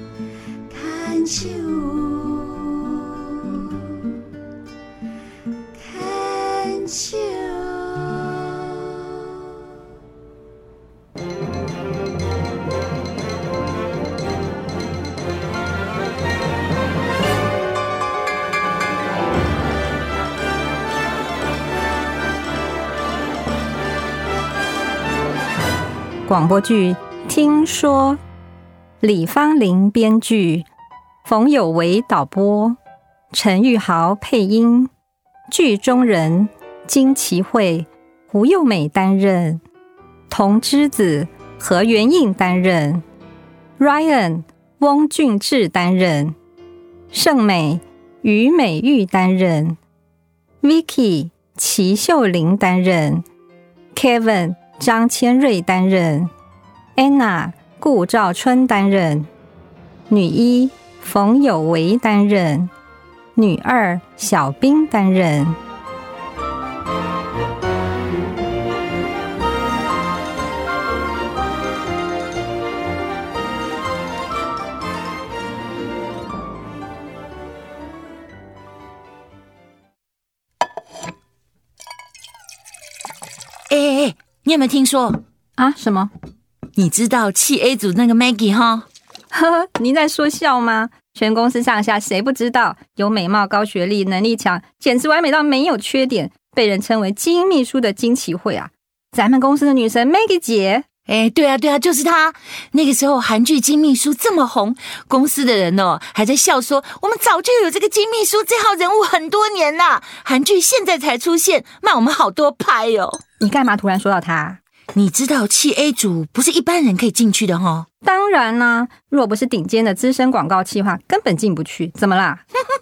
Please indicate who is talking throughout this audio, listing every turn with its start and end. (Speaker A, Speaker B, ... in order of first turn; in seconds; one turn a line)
Speaker A: 0.7-3.2
Speaker A: 5.8-8.4
Speaker B: 26.3-28.2
Speaker B: 29.0-30.7
Speaker B: 31.2-32.8
Speaker B: 33.3-34.9
Speaker B: 35.5-39.6
Speaker B: 40.3-43.0
Speaker B: 43.8-46.4
Speaker B: 47.1-49.8
Speaker B: 50.6-53.2
Speaker B: 53.9-56.3
Speaker B: 57.0-59.3
Speaker B: 60.1-62.7
Speaker B: 63.4-65.6
Speaker A: 83.7-85.2
Speaker B: 85.6-86.1
Speaker A: 86.8-88.9
Speaker B: 89.3-100.9
Speaker A: 101.1-113.2
Speaker B: 113.4-114.6
Speaker A: 114.9-117.9
Speaker B: 118.0-122.4